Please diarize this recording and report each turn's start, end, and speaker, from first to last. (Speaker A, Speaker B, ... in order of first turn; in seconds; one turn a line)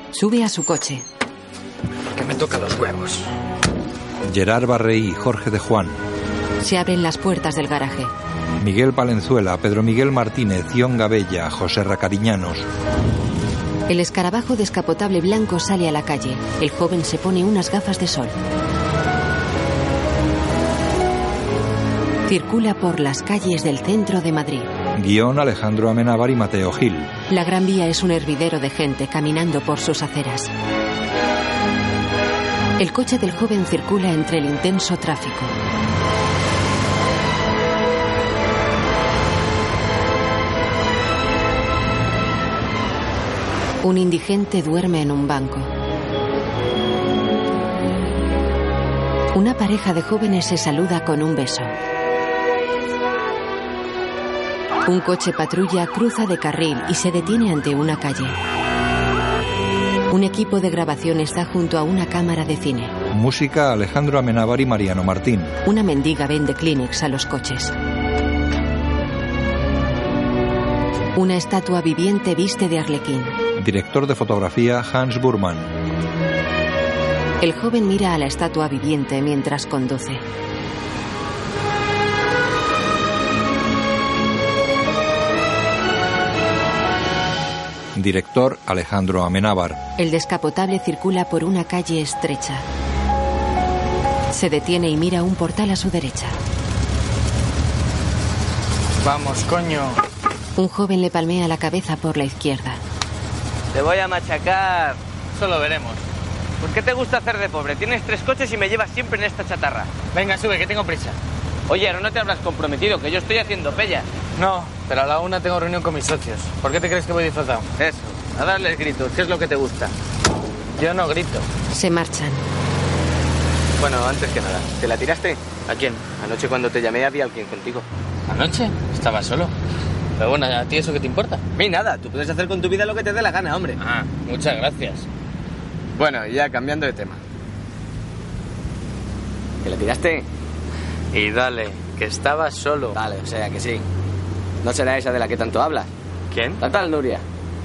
Speaker A: 0.1-1.1
Speaker B: 2.1-3.3
Speaker C: 4.2-6.0
Speaker A: 6.6-8.1
Speaker C: 8.6-12.7
Speaker A: 13.9-18.4
Speaker A: 22.3-24.7
Speaker C: 24.9-27.1
Speaker A: 27.3-30.5
Speaker A: 32.8-35.5
Speaker A: 43.8-45.7
Speaker A: 49.3-51.7
Speaker A: 54.9-58.4
Speaker A: 60.1-62.9
Speaker C: 63.1-65.6
Speaker A: 65.7-67.7
Speaker A: 71.2-73.4
Speaker C: 73.6-75.7
Speaker A: 77.4-80.2
Speaker C: 88.0-89.8
Speaker A: 90.0-92.7
Speaker A: 94.3-96.4
Speaker B: 99.0-100.0
Speaker A: 100.6-102.8
Speaker D: 103.7-105.0
Speaker B: 105.4-106.0
Speaker D: 106.6-109.9
Speaker B: 110.1-111.2
Speaker D: 111.7-114.1
Speaker B: 114.4-117.7
Speaker D: 117.8-119.9
Speaker B: 120.8-121.5
Speaker A: 121.7-122.4
Speaker D: 123.8-125.4
Speaker B: 125.7-126.1
Speaker D: 126.2-127.8
Speaker B: 128.3-129.5
Speaker B: 130.2-131.4
Speaker D: 131.6-133.8
Speaker B: 133.8-135.1
Speaker D: 135.9-137.2
Speaker D: 139.6-140.3
Speaker B: 141.1-142.2
Speaker D: 142.9-143.8
Speaker D: 144.6-145.9
Speaker D: 146.6-147.2